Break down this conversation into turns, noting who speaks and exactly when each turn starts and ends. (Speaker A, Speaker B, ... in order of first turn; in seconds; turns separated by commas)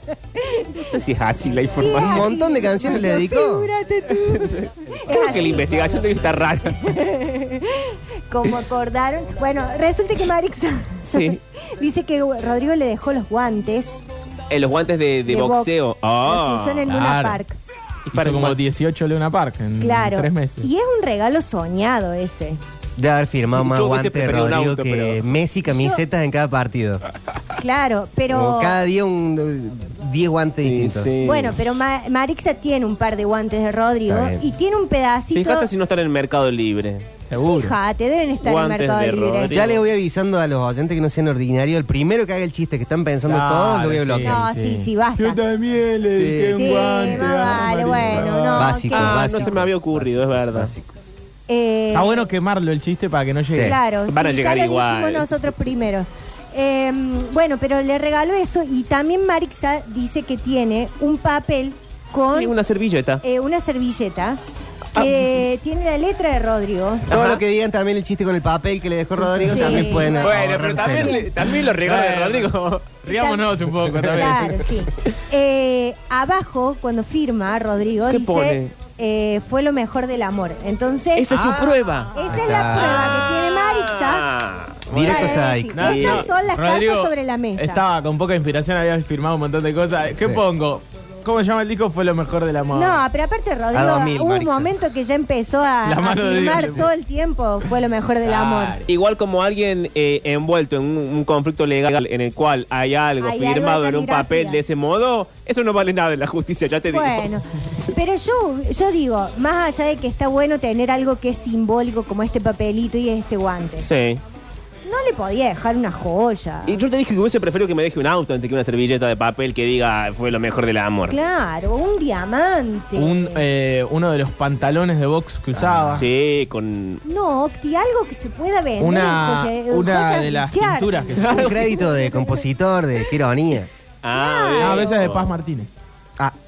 Speaker A: 0.4-0.8, Speaker B: 0.7-2.3, Speaker A: 1.8-13.9, Speaker C: 1.8-3.7, Speaker B: 4.3-6.9, Speaker B: 11.1-11.4, Speaker B: 14.5-16.9, Speaker A: 15.3-15.7, Speaker A: 16.3-17.6, Speaker D: 16.9-17.4, Speaker B: 18.1-18.6, Speaker D: 18.1-20.7, Speaker A: 19.8-22.6, Speaker C: 23.0-27.0, Speaker B: 23.6-25.2, Speaker A: 25.7-26.0, Speaker A: 27.6-28.8, Speaker C: 28.3-31.1, Speaker B: 30.6-31.6, Speaker A: 31.2-35.7, Speaker C: 34.1-34.4, Speaker B: 35.4-37.1, Speaker D: 37.3-37.8, Speaker A: 37.4-39.5, Speaker B: 38.4-39.9, Speaker C: 39.5-44.4, Speaker D: 43.3-48.9, Speaker A: 44.2-45.4, Speaker C: 46.1-50.9, Speaker A: 46.5-49.5, Speaker B: 48.9-50.7, Speaker A: 51.5-52.3, Speaker D: 51.9-53.8, Speaker A: 53.6-62.5, Speaker B: 54.1-55.3, Speaker B: 62.1-63.2, Speaker A: 63.2-64.4, Speaker A: 65.0-67.1, Speaker B: 67.1-67.4, Speaker C: 67.1-71.2, Speaker A: 69.4-71.2, Speaker B: 69.5-72.9, Speaker D: 71.6-74.7, Speaker A: 73.1-73.5, Speaker A: 74.1-81.4, Speaker B: 78.1-78.7, Speaker B: 81.2-86.3, Speaker D: 81.3-81.8, Speaker A: 82.2-84.2, Speaker C: 82.3-83.2, Speaker C: 84.9-86.0, Speaker A: 85.0-87.8, Speaker D: 85.7-93.0, Speaker A: 92.7-98.8, Speaker C: 93.7-94.8, Speaker D: 95.8-96.9, Speaker D: 98.2-98.9, Speaker B: 98.9-107.3, Speaker A: 103.2-104.6, Speaker A: 106.9-113.9, Speaker B: 113.8-114.2, Speaker A: 114.8-116.8, Speaker B: 116.7-121.2, Speaker A: 121.1-123.4, Speaker D: 123.0-126.0, Speaker C: 125.5-126.1, Speaker B: 125.9-127.0, Speaker A: 127.0-132.4, Speaker D: 128.8-131.5, Speaker C: 131.3-133.7, Speaker B: 134.0-135.3, Speaker A: 134.1-135.1, Speaker D: 134.6-136.3